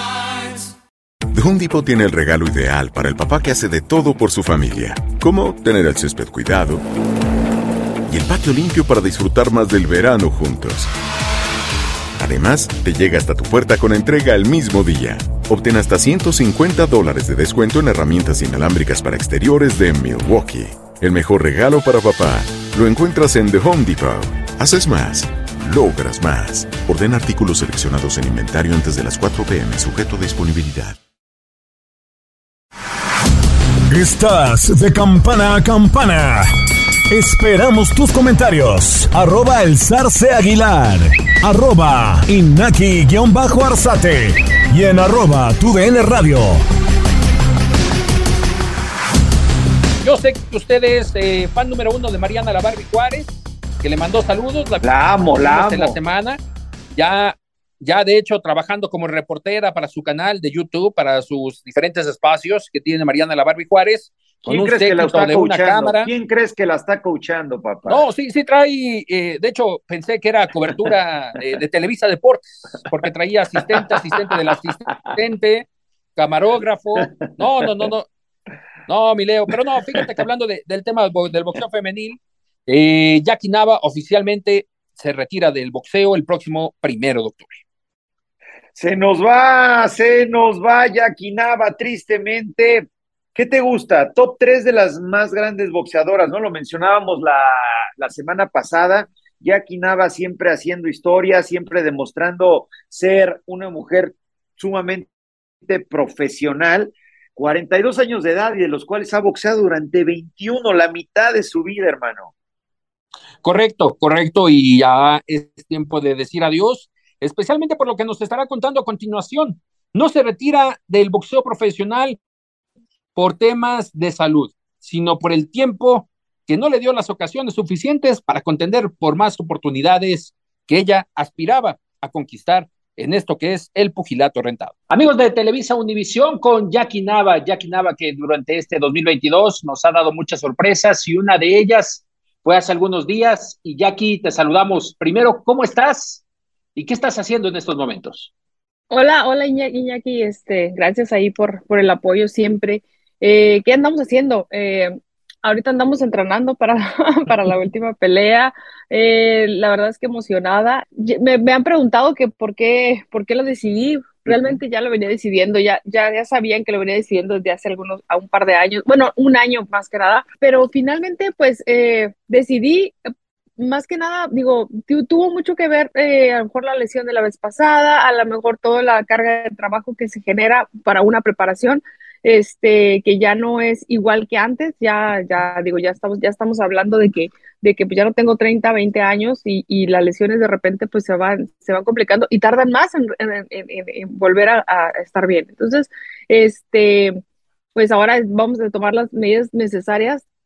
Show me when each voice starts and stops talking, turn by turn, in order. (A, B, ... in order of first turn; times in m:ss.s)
0:01.3-0:06.8 A
0:08.1-0:10.9 A
0:12.2-0:31.0 A
0:33.9-0:36.5 B
0:37.1-0:46.6 B
0:50.0-0:54.8 C
0:54.8-0:56.0 D
0:55.4-0:56.4 C
0:57.0-1:06.1 C
1:04.4-1:08.0 D
1:07.8-1:18.0 C
1:13.6-1:13.9 D
1:17.0-1:17.3 D
1:18.9-1:27.6 C
1:28.7-1:45.1 D
1:45.6-1:52.3 D
1:53.4-2:02.2 C
2:03.2-2:26.2 C
2:26.7-2:28.3 C
2:28.9-2:53.0 E
2:44.3-2:44.6 C
2:53.6-3:17.2 E
3:17.7-3:20.2 E